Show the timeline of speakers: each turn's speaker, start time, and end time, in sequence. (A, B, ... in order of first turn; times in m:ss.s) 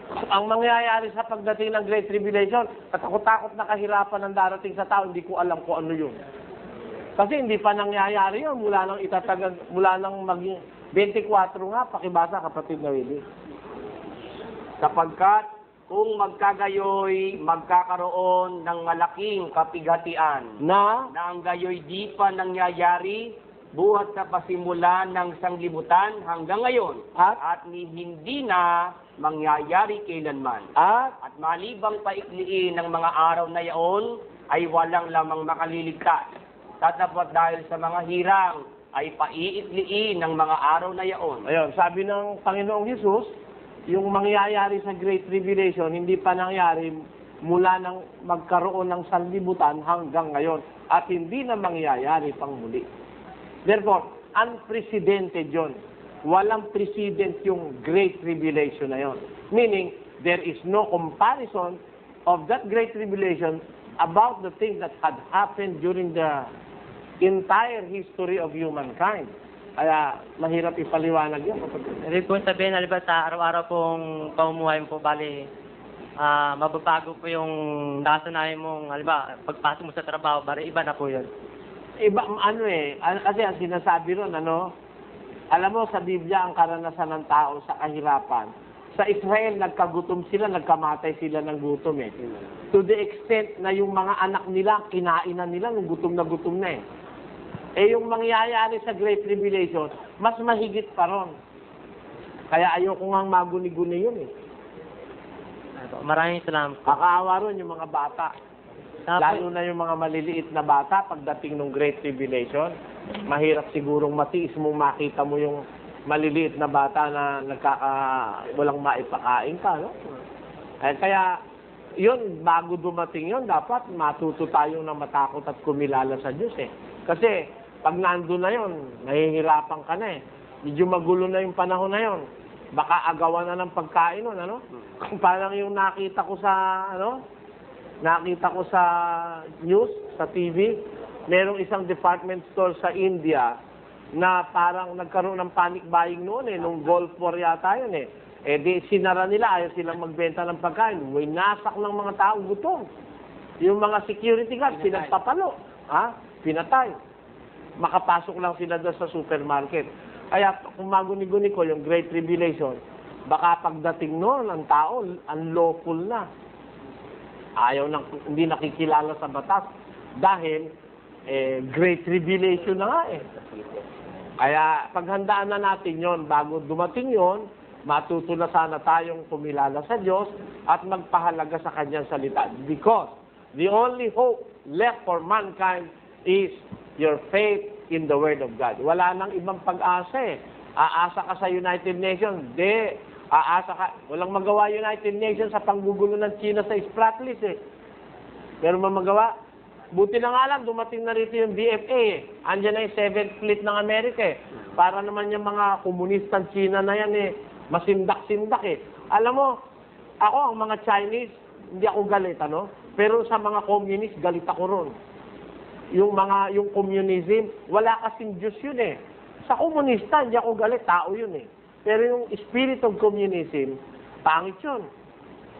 0:00.3-0:06.2 A
0:07.2-0:13.2 A
0:14.8-0:20.6 B
0:20.6-0:21.1 A
0:21.1-0:30.7 B
0:27.1-0:27.4 A
0:30.8-0:31.1 A
0:31.2-0:36.3 B
0:36.8-0:41.4 B
0:41.4-0:43.3 A
0:43.9-0:52.8 A
0:53.6-1:06.5 A
1:07.2-1:12.0 A
1:12.1-1:15.5 C
1:16.2-1:21.3 C
1:22.0-1:24.7 A
1:25.5-1:32.2 A
1:32.7-1:36.8 A
1:37.8-1:41.3 A
1:42.5-1:44.3 A
1:45.8-1:47.0 C
1:46.9-1:48.3 A
1:49.1-1:49.4 C
1:49.2-1:52.7 A
1:53.3-2:00.2 A
2:00.8-2:01.4 A
2:02.0-2:17.2 A
2:18.0-2:23.6 A
2:24.2-2:32.9 A
2:33.6-2:37.0 A
2:37.8-2:46.3 A
2:47.6-2:49.7 A
2:50.2-2:50.7 A
2:51.3-2:53.2 A
2:54.4-3:17.6 A
3:18.6-3:19.3 A
3:19.9-3:29.6 A
3:30.2-3:34.9 A
3:35.9-3:44.8 A